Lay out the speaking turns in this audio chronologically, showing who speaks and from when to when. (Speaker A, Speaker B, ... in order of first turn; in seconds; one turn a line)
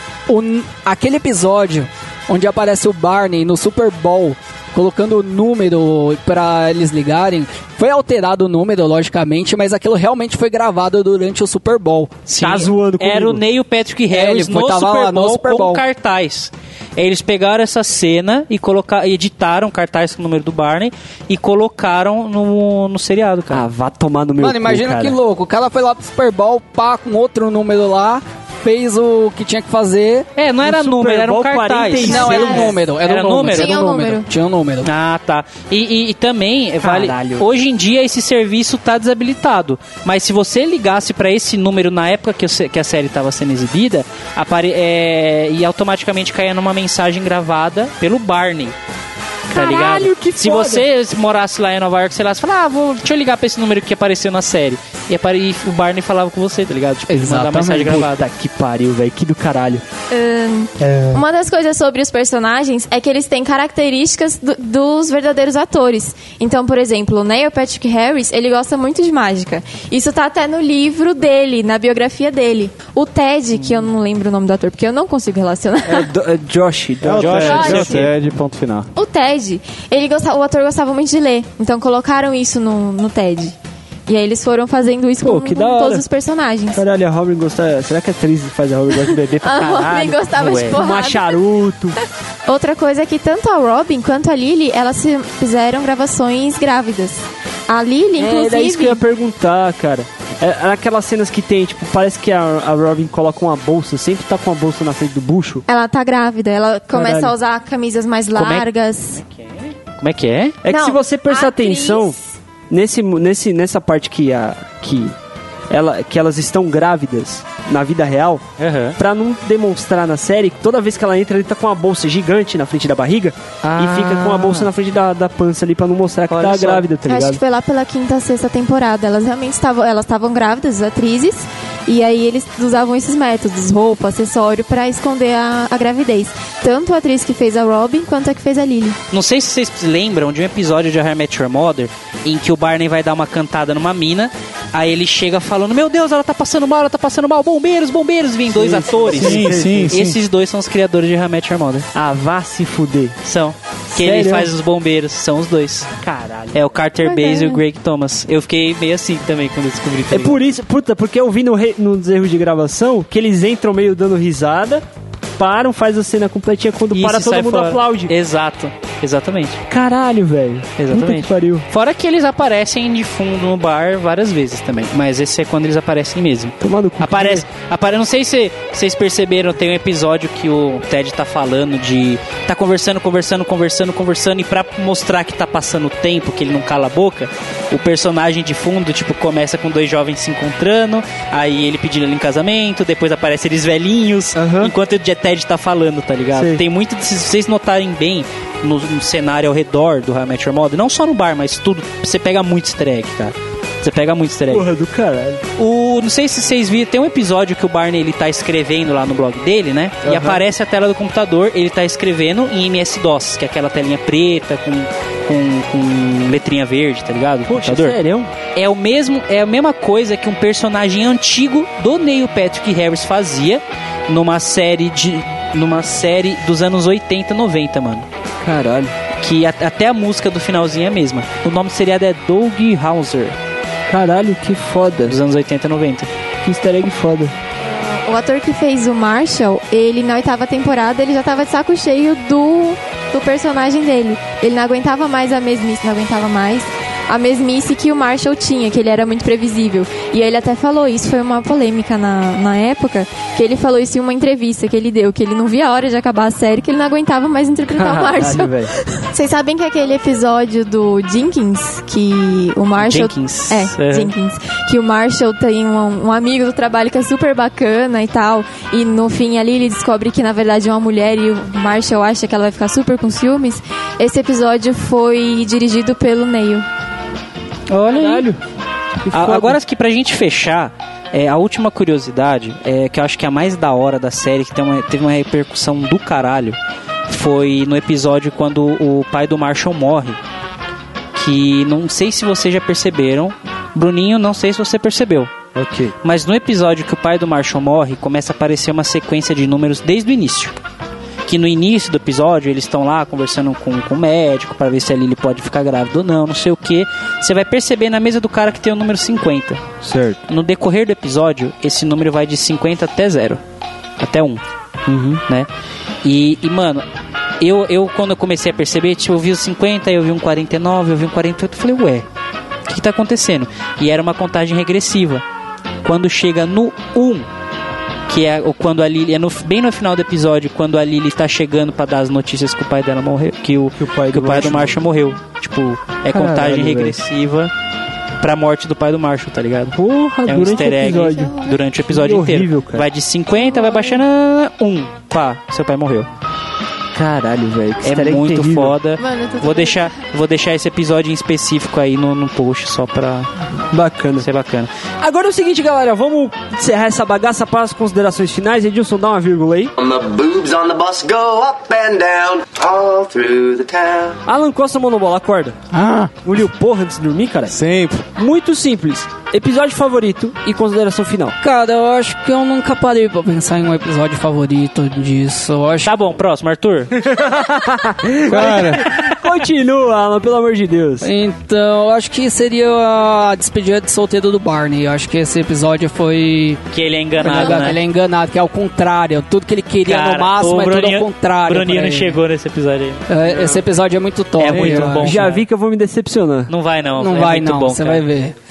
Speaker A: 0.3-12.2
Speaker B: 12.3-23.6
Speaker C: 12.3-13.4
Speaker A: 14.1-15.8
Speaker C: 23.5-25.1
Speaker A: 24.4-30.3
Speaker B: 30.4-33.7
Speaker C: 30.6-32.7
Speaker D: 32.0-32.8
Speaker A: 32.0-34.9
Speaker D: 33.5-34.3
Speaker B: 34.8-48.7
Speaker C: 36.8-37.4
Speaker C: 49.5-50.8
Speaker B: 49.5-58.2
Speaker A: 57.1-58.1
Speaker C: 57.9-59.8
Speaker D: 60.1-76.1
Speaker C: 60.8-61.2
Speaker C: 75.8-78.0
Speaker E: 77.0-78.9
Speaker B: 77.2-78.0
Speaker D: 77.4-78.1
Speaker D: 79.0-83.5
Speaker D: 84.1-86.8
Speaker C: 85.2-86.0
Speaker C: 86.7-92.0
Speaker D: 89.4-91.4
Speaker B: 89.6-90.8
Speaker D: 92.5-99.0
Speaker C: 98.2-105.6
Speaker D: 105.7-109.2
Speaker C: 106.9-107.3
Speaker B: 108.3-108.7
Speaker B: 109.2-110.6
Speaker C: 110.6-112.2
Speaker D: 110.7-112.2
Speaker C: 112.7-115.1
Speaker C: 115.7-118.4
Speaker B: 118.6-119.0
Speaker C: 119.0-127.4
Speaker B: 123.6-124.7
Speaker B: 126.3-126.8
Speaker D: 127.1-139.0
Speaker B: 139.1-151.9
Speaker C: 148.5-150.0
Speaker E: 149.1-150.2
Speaker C: 151.9-153.2
Speaker B: 153.2-155.9
Speaker C: 153.9-154.5
Speaker C: 156.0-156.6
Speaker B: 156.5-160.4
Speaker D: 157.0-157.6
Speaker C: 160.1-164.8
Speaker C: 165.4-168.1
Speaker B: 166.9-169.6
Speaker C: 169.7-171.7
Speaker B: 170.8-204.7
Speaker C: 176.6-177.4
Speaker C: 194.3-194.7
Speaker C: 196.3-196.6
Speaker C: 204.5-205.4
Speaker B: 205.6-217.9
Speaker C: 210.0-210.4
Speaker C: 217.5-218.3
Speaker B: 218.6-228.1
Speaker C: 228.4-228.9
Speaker B: 229.2-233.4
Speaker C: 233.9-235.2
Speaker B: 235.1-236.1
Speaker C: 236.4-237.3
Speaker D: 237.7-276.6
Speaker C: 257.7-258.7
Speaker B: 262.8-264.1
Speaker B: 277.7-278.3
Speaker C: 277.9-278.4
Speaker C: 279.0-279.6
Speaker B: 279.1-286.6
Speaker B: 287.1-290.2
Speaker B: 291.1-295.3
Speaker C: 295.5-295.9
Speaker B: 296.0-300.6
Speaker B: 301.2-309.6
Speaker C: 309.8-310.2
Speaker B: 310.3-313.4
Speaker B: 314.0-314.4
Speaker C: 314.9-315.2
Speaker B: 316.0-316.8
Speaker B: 317.4-322.1
Speaker B: 322.7-325.2
Speaker B: 325.8-327.3
Speaker B: 328.1-337.5
Speaker C: 333.8-334.8
Speaker C: 336.1-336.9
Speaker B: 338.2-346.1
Speaker C: 339.7-341.3
Speaker D: 341.0-341.6
Speaker C: 341.9-342.9
Speaker D: 343.4-344.0
Speaker C: 346.9-348.7
Speaker B: 347.8-353.3
Speaker D: 349.0-349.9
Speaker C: 353.7-354.2
Speaker B: 354.2-354.7
Speaker C: 355.0-359.7
Speaker F: 359.8-364.2
Speaker C: 364.2-365.6
Speaker A: 365.7-366.1
Speaker C: 366.2-367.6
Speaker E: 367.5-368.1
Speaker C: 368.1-371.4
Speaker A: 371.4-375.9
Speaker B: 375.8-376.9
Speaker C: 377.0-381.1
Speaker E: 378.3-378.8
Speaker A: 381.0-386.6
Speaker B: 386.7-387.8
Speaker A: 387.2-392.2
Speaker C: 387.3-387.6
Speaker B: 389.8-393.0
Speaker A: 393.1-395.1
Speaker B: 394.4-395.4
Speaker C: 394.7-396.5
Speaker B: 396.5-398.1
Speaker A: 397.0-398.3